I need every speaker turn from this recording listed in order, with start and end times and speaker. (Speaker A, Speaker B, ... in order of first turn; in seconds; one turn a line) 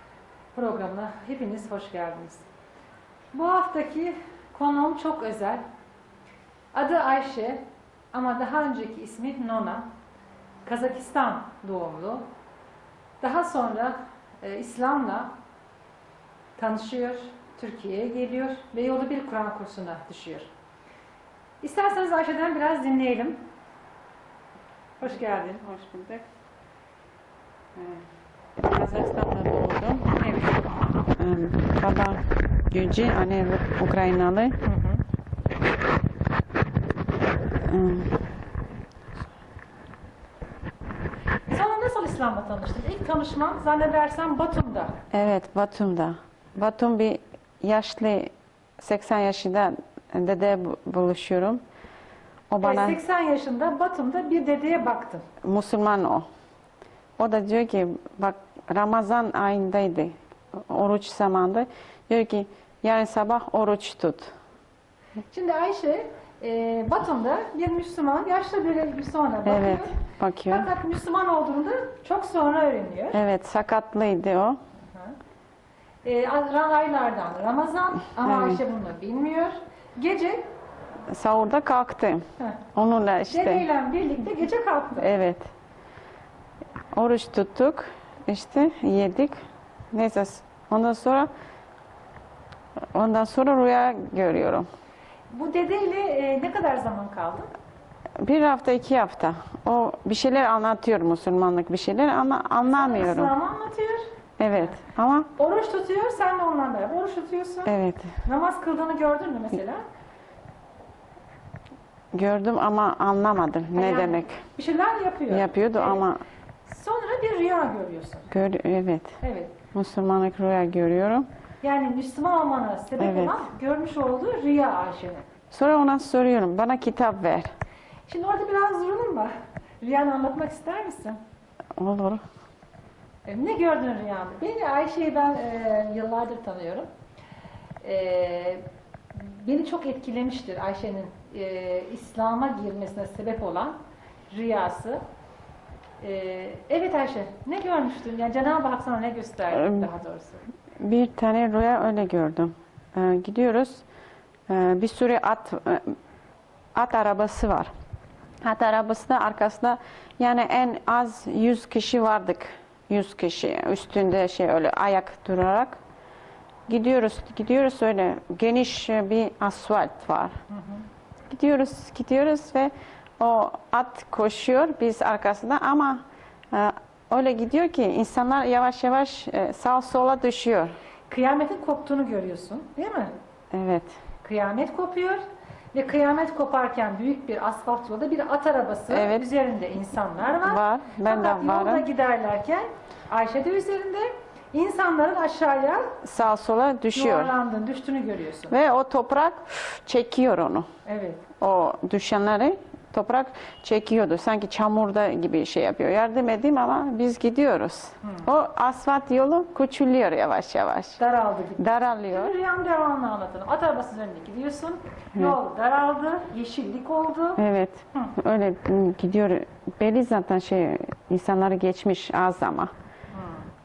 Speaker A: 0.5-2.5
Speaker A: 3.3-5.6
Speaker A: 6.7-9.9
Speaker A: 10.6-12.2
Speaker A: 13.2-15.3
Speaker A: 16.6-20.5
Speaker A: 21.6-23.4
Speaker A: 25.0-25.6
Speaker B: 25.0-26.2
Speaker B: 27.7-28.0
Speaker B: 28.6-30.1
Speaker A: 30.2-30.6
Speaker B: 31.1-34.6
Speaker A: 34.6-35.0
Speaker B: 37.6-38.2
Speaker A: 41.5-45.0
Speaker B: 45.1-51.6
Speaker B: 52.5-53.0
Speaker A: 52.6-55.2
Speaker B: 55.4-56.2
Speaker B: 57.2-64.3
Speaker A: 65.3-70.0
Speaker B: 69.4-70.7
Speaker A: 70.5-73.2
Speaker B: 73.1-74.6
Speaker A: 74.9-75.2
Speaker A: 76.0-80.5
Speaker B: 78.2-78.6
Speaker B: 81.1-82.2
Speaker B: 82.7-83.7
Speaker A: 83.3-85.2
Speaker B: 85.0-85.5
Speaker B: 86.9-89.4
Speaker B: 89.9-91.3
Speaker B: 92.9-94.7
Speaker A: 95.3-97.5
Speaker B: 98.2-103.3
Speaker A: 102.6-104.0
Speaker B: 104.4-105.3
Speaker A: 105.3-107.7
Speaker B: 107.7-108.1
Speaker A: 108.2-109.8
Speaker B: 112.1-114.4
Speaker A: 113.7-116.0
Speaker B: 115.3-116.2
Speaker A: 116.7-118.3
Speaker B: 118.3-119.2
Speaker A: 119.2-119.5
Speaker B: 119.7-121.2
Speaker A: 121.6-125.2
Speaker B: 123.0-123.5
Speaker B: 125.5-127.5
Speaker A: 128.1-131.2
Speaker B: 131.8-132.2
Speaker A: 133.2-136.9
Speaker A: 137.8-143.8
Speaker A: 144.3-145.0
Speaker A: 146.0-150.4
Speaker B: 149.5-149.9
Speaker B: 150.8-153.8
Speaker B: 154.5-155.9
Speaker B: 156.7-157.7
Speaker B: 158.4-165.8
Speaker B: 166.7-170.3
Speaker A: 170.5-170.8
Speaker B: 171.3-180.7
Speaker A: 181.1-183.1
Speaker B: 183.5-184.0
Speaker A: 184.2-185.2
Speaker A: 185.7-196.0
Speaker B: 188.9-189.2
Speaker B: 190.4-191.8
Speaker B: 196.0-197.3
Speaker A: 196.9-198.6
Speaker B: 198.5-200.7
Speaker A: 200.8-201.2
Speaker B: 201.4-211.0
Speaker A: 211.0-217.4
Speaker B: 211.6-212.3
Speaker B: 217.4-222.7
Speaker A: 223.1-223.4